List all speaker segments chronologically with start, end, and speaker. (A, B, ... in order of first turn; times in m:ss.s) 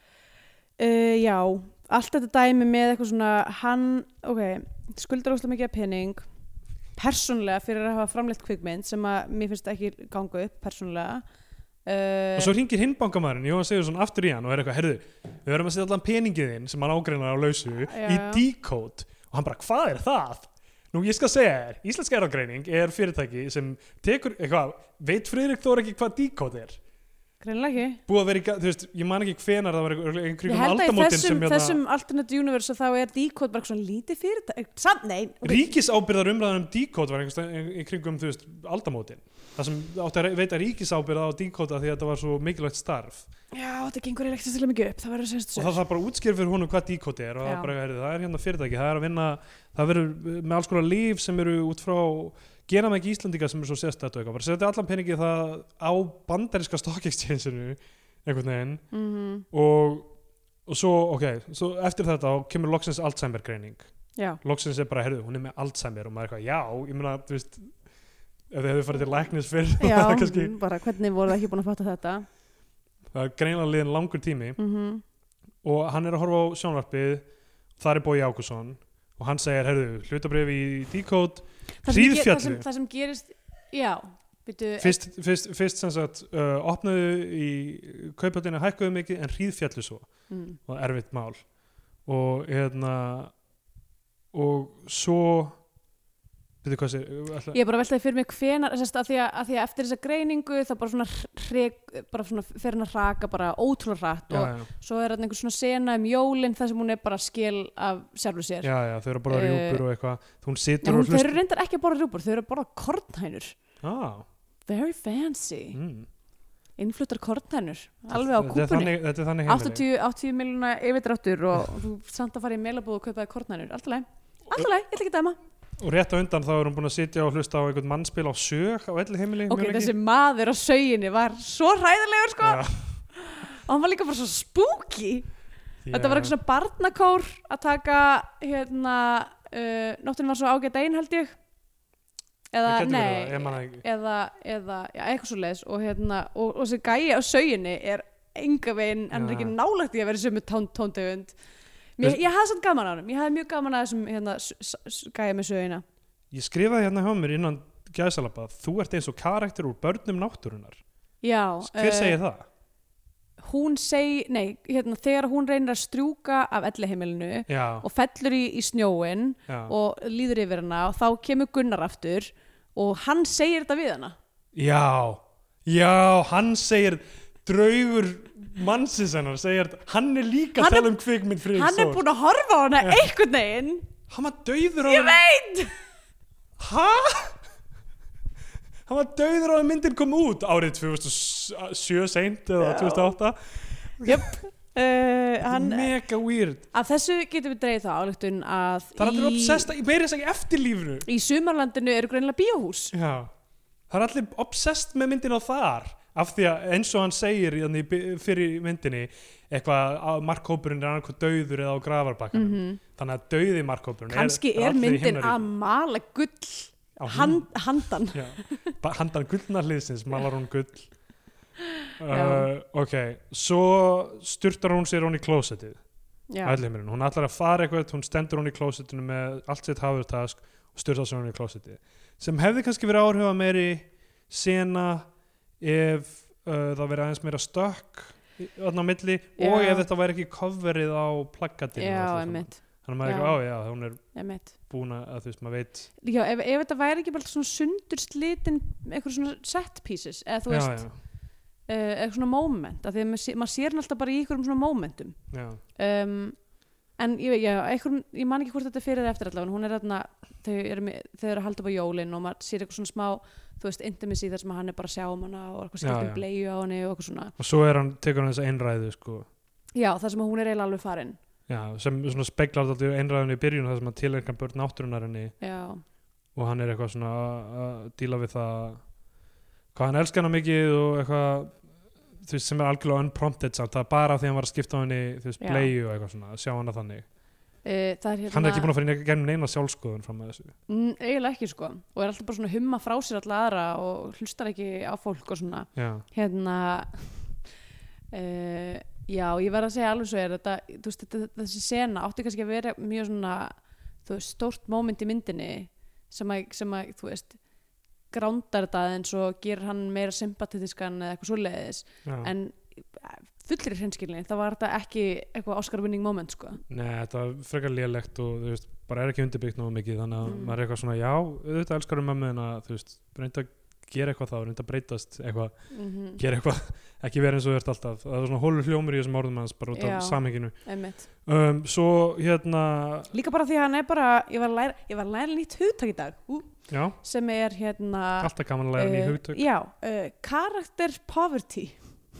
0:00.8-0:06.2 A
0:07.0-0:11.2 A
0:11.8-0:12.5 A
0:12.4-0:26.8 B
0:17.9-0:18.4 A
0:27.4-0:28.0 A
0:28.1-0:31.8 B
0:30.4-0:35.7 A
0:35.4-0:43.3 B
0:43.5-0:45.8 A
0:45.6-0:58.8 B
0:47.4-0:47.7 A
0:58.9-0:59.4 A
0:59.5-1:00.1 B
1:00.6-1:03.9 B
1:04.4-1:07.7 B
1:08.5-1:10.6 B
1:09.8-1:12.2 A
1:13.1-1:14.6 B
1:14.6-1:15.0 A
1:15.6-1:17.2 B
1:17.8-1:22.6 B
1:21.8-1:25.0 A
1:24.8-1:30.1 B
1:30.3-1:30.6 A
1:30.6-1:31.4 B
1:32.0-1:33.3 B
1:34.3-1:35.6 B
1:36.6-1:37.6 B
1:37.5-1:48.7 A
1:44.3-1:44.7 B
1:48.6-1:51.4 B
1:49.3-1:49.8 A
1:50.8-1:53.5 A
1:53.8-1:54.2 B
1:54.7-1:55.8 A
1:55.7-1:56.1 B
1:56.8-2:05.4 A
1:58.1-1:59.8 B
2:05.8-2:09.9 B
2:09.5-2:15.3 A
2:12.4-2:12.8 B
2:15.8-2:16.3 B
2:15.9-2:21.4 A
2:22.5-2:31.3 A
2:22.6-2:23.8 B
2:29.1-2:29.5 B
2:32.0-2:35.8 A
2:36.3-2:40.8 B
2:41.2-2:42.2 A
2:41.6-2:42.5 B
2:43.4-2:54.2 A
2:47.5-2:47.8 B
2:49.5-2:49.7 B
2:54.5-3:02.0 B
3:00.6-3:00.9 A
3:01.5-3:03.9 A
3:04.1-3:05.2 B
3:04.9-3:05.7 A
3:06.6-3:07.4 B
3:08.8-3:14.3 B
3:12.6-3:13.2 A
3:14.0-3:15.9 A
3:15.5-3:16.7 B
3:16.7-3:19.7 A
3:19.0-3:21.0 B
3:21.0-3:22.9 A
3:22.9-3:23.3 B
3:23.9-3:35.5 B
3:32.3-3:32.8 A
3:34.1-3:38.7 A
3:37.0-3:40.9 B
3:42.0-3:45.8 B
3:42.1-3:42.5 A
3:46.3-3:46.6 A
3:46.4-3:55.1 B
3:55.6-4:04.0 B
3:59.4-3:59.8 A
4:01.8-4:03.4 A
4:04.1-4:04.5 A
4:04.6-4:05.9 B
4:06.0-4:10.9 A
4:10.5-4:11.0 B
4:11.7-4:15.2 A
4:15.3-4:15.6 B
4:15.8-4:16.4 A
4:17.0-4:27.3 A
4:25.8-4:26.2 B
4:27.4-4:29.3 B
4:29.7-4:31.2 A
4:31.5-4:35.4 B
4:35.4-4:35.8 A
4:36.3-4:38.8 B
4:39.7-4:41.6 B
4:42.2-4:47.1 B
4:45.4-4:45.7 A
4:47.6-4:48.7 A
4:48.3-4:50.5 B
4:50.7-4:57.4 A
4:55.7-4:56.0 B
4:58.1-5:07.4 A
5:08.1-5:16.6 A
5:12.0-5:12.3 B
5:16.7-5:33.1 B
5:20.2-5:20.5 A
5:25.7-5:26.2 A
5:29.7-5:31.1 A
5:33.1-5:41.8 A
5:36.7-5:37.0 B
5:38.2-5:39.4 B